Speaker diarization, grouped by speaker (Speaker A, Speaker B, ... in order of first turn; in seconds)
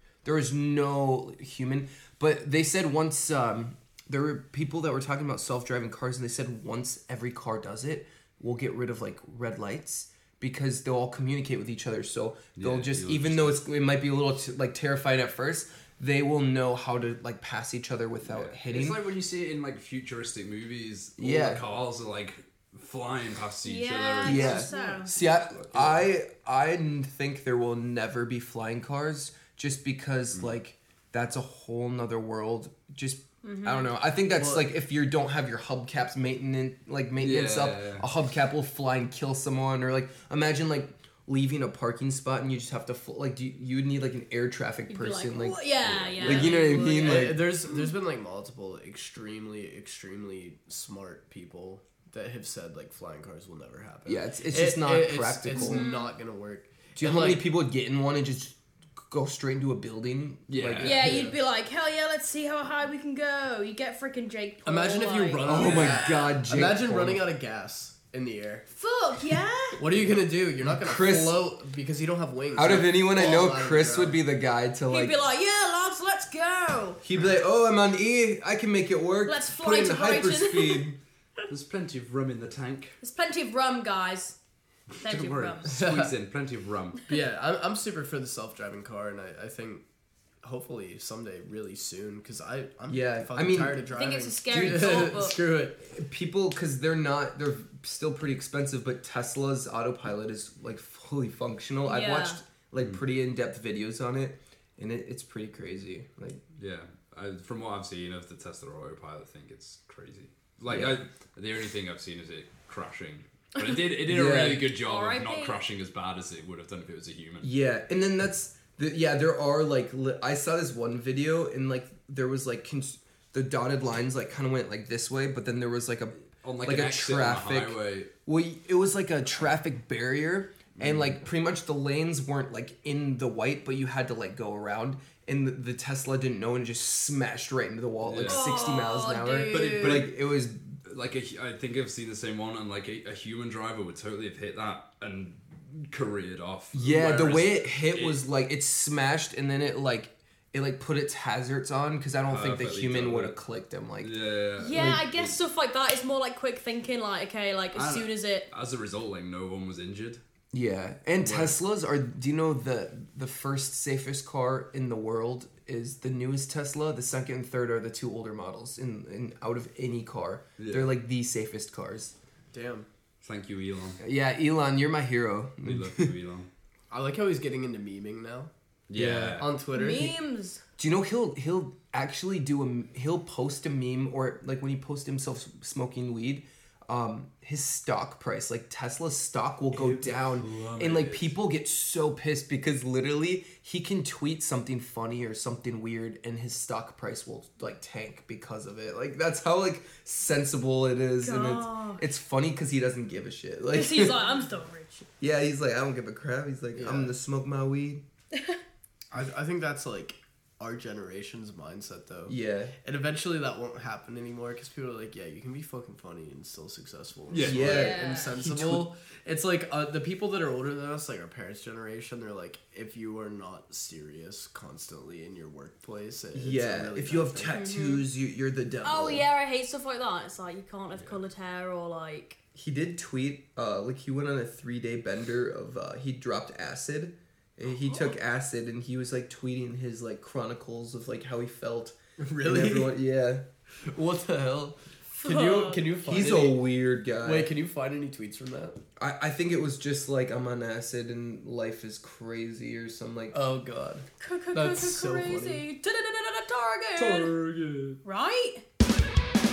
Speaker A: 0.2-19.1, 21.2-21.6, 24.2-45.7, 46.2-47.5, 54.1-55.9, 57.0-58.6, 59.1-61.3, 65.4-67.3, 70.7-71.5, 72.5-75.2, 77.0-81.0, 92.9-93.9, 94.5-106.4, 110.7-111.0, 114.0-114.7, 117.4-140.7, 146.7-154.1, 154.6-155.1, 160.5-172.1, 174.0-176.1, 178.9-179.4, 180.8-204.2, 205.2-208.0, 212.3-212.7, 217.4-218.9, 226.3-229.2, 232.6-243.4, 246.0-247.5, 249.0-253.4
Speaker B: 12.6-13.6, 18.2-24.7, 25.3-26.1, 37.2-38.0, 45.8-46.5, 60.5-61.2, 81.5-83.0, 85.0-87.1, 106.6-117.5, 126.4-128.1, 130.8-131.2, 138.0-138.6, 139.5-140.2, 140.8-148.2, 152.3-153.4, 154.0-155.3, 157.7-160.2, 161.2-161.6, 170.6-170.9, 173.2-174.0, 175.6-176.5, 178.9-179.5, 189.7-191.3, 217.3-217.9, 257.0-258.0
Speaker C: 23.6-25.1, 33.4-33.9, 44.9-47.3, 55.5-56.1, 60.8-66.3, 68.7-69.8, 74.9-77.0, 79.2-80.9, 83.0-84.4, 85.0-85.8, 93.9-95.4, 101.8-102.4, 114.8-115.6, 138.2-140.0, 154.6-158.5, 179.7-180.6, 201.2-202.0, 203.7-205.1, 217.7-218.3, 227.5-228.1, 228.8-232.4, 245.2-245.9, 254.2-257.3, 258.0-258.6
Speaker D: 24.7-25.0, 34.3-34.7, 46.2-57.4, 64.7-68.7, 69.8-74.2, 85.7-86.1, 87.1-89.8, 90.4-95.8, 172.5-172.9, 176.9-178.5, 179.3-180.2, 206.7-207.1, 209.1-227.6, 242.2-242.9, 243.9-246.7, 247.2-248.8, 253.3-255.6